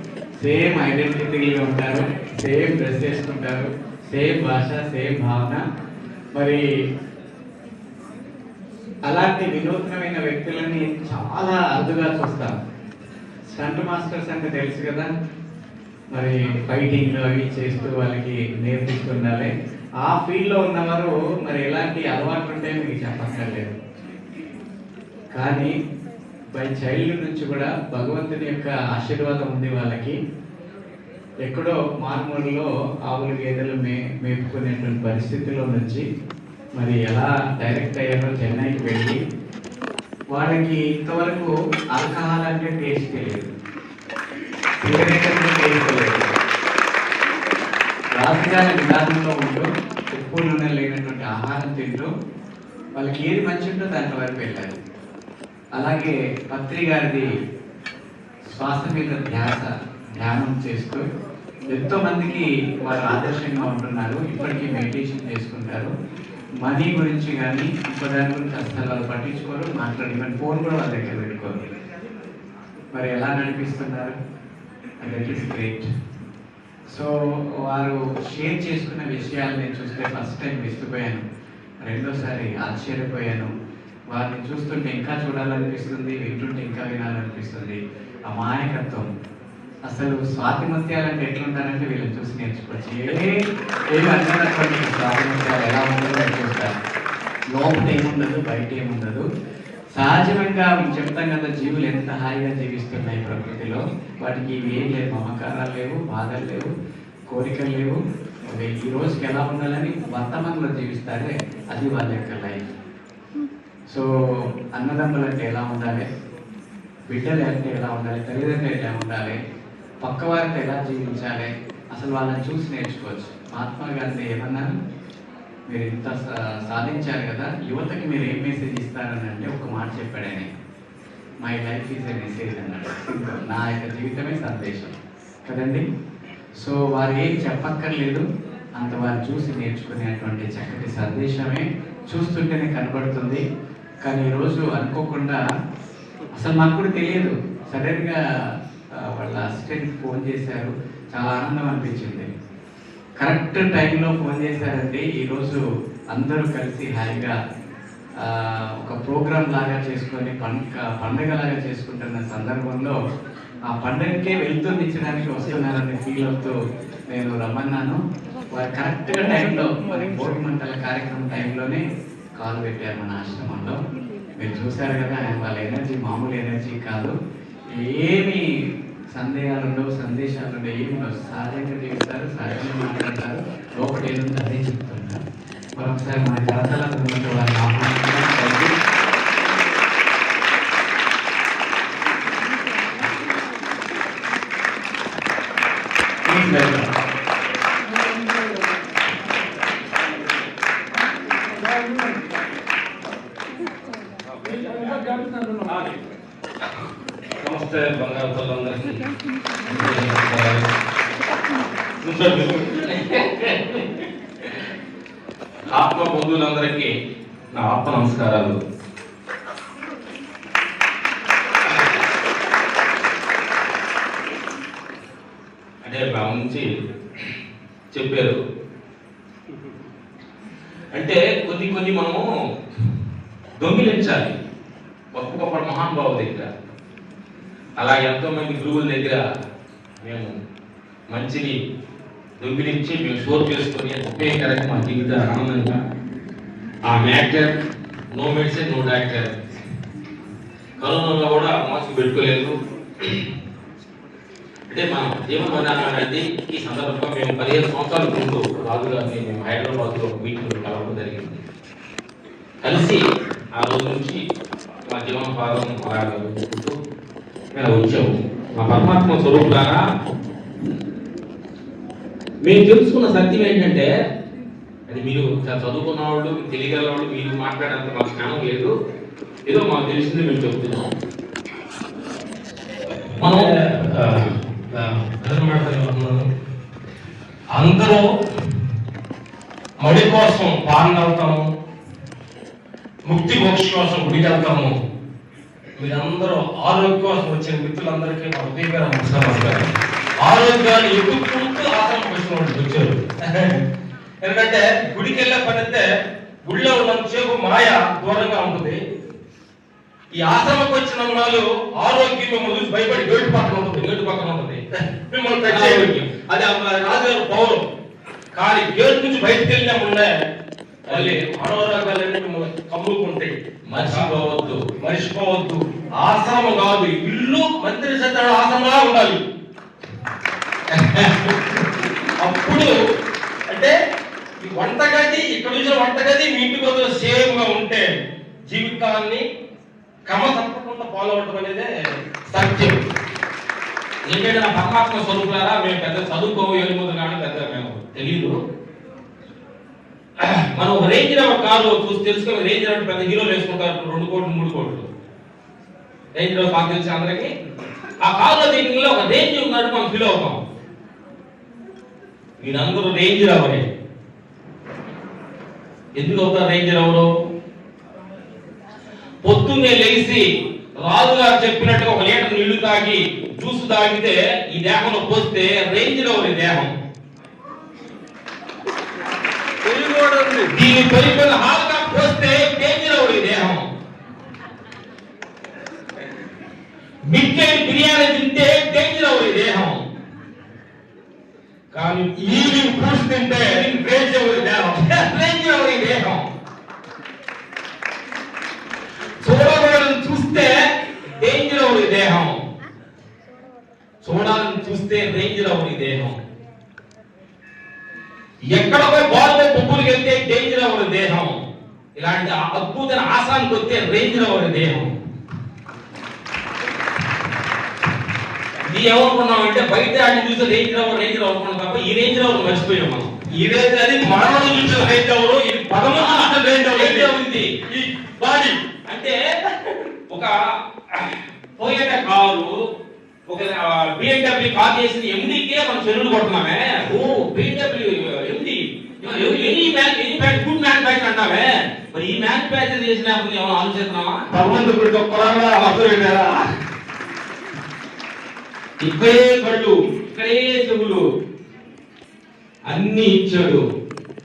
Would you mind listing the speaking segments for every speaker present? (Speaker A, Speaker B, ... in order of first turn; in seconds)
Speaker A: 0.4-5.6, 6.3-6.6, 9.1-12.5, 13.5-15.1, 16.1-19.5, 20.0-23.8, 25.4-25.7, 26.5-30.2, 31.4-36.0, 36.8-39.2, 40.3-43.5, 44.8-46.4, 48.2-52.1, 53.0-54.8, 55.8-57.3, 58.5-61.0, 61.7-65.9, 66.6-71.6, 72.9-74.2, 75.0-75.9, 76.9-81.2, 81.8-83.5, 84.1-89.1, 89.9-96.7, 97.5-99.2, 100.0-106.7, 107.3-112.7, 114.8-116.1, 117.1-119.4, 120.0-124.7, 125.7-130.5, 131.4-135.8, 136.6-138.2, 138.8-143.4, 144.0-145.4, 146.3-148.2, 149.0-152.3, 153.2-155.6, 156.1-157.4, 158.2-163.0, 163.7-166.6, 167.1-168.0, 168.5-171.8, 172.4-173.8, 174.4-177.2, 177.8-178.4, 179.2-185.2, 185.8-188.8, 196.3-196.7
Speaker B: 204.5-205.9, 207.4-209.0, 283.2-286.3, 287.5-288.1, 289.8-291.5, 293.1-294.8, 295.8-299.6, 300.2-303.6, 304.2-305.9, 306.5-308.8, 310.2-313.9, 315.1-317.6, 318.3-320.1, 320.9-323.4, 324.8-329.2, 332.2-332.7, 333.5-333.8, 334.4-337.9, 338.5-339.2, 340.1-341.7, 342.3-342.8, 379.6-380.5, 392.1-395.1, 423.4-427.1, 427.7-428.6, 444.3-446.5
Speaker C: 209.7-210.6, 212.0-214.6, 215.7-216.9, 217.5-218.6, 225.8-226.7, 227.9-228.4, 230.9-232.2, 233.6-234.4, 235.1-236.5, 237.8-239.2, 240.0-240.3, 241.1-241.6, 242.4-245.8, 246.9-247.5, 248.1-249.4, 250.8-253.2, 254.7-261.4, 262.6-263.0, 263.6-264.2, 264.9-266.8, 267.6-269.8, 272.4-273.9, 274.9-278.7, 279.5-280.9, 283.2-283.6, 313.8-314.6, 315.5-316.1, 320.9-321.2, 323.7-324.6, 330.7-331.2, 344.1-348.4, 350.2-354.9, 356.2-357.3, 358.0-360.4, 362.4-363.7, 366.0-367.1, 369.2-370.2, 370.8-376.7, 380.5-383.7, 387.1-389.8, 391.7-392.7, 393.3-396.3, 399.2-400.6, 401.2-402.4, 404.0-406.2, 408.5-411.4, 412.0-414.9, 418.6-423.1, 424.6-424.9, 425.8-427.5, 428.9-429.2, 430.9-432.5, 433.3-444.2, 448.8-451.0, 452.7-453.6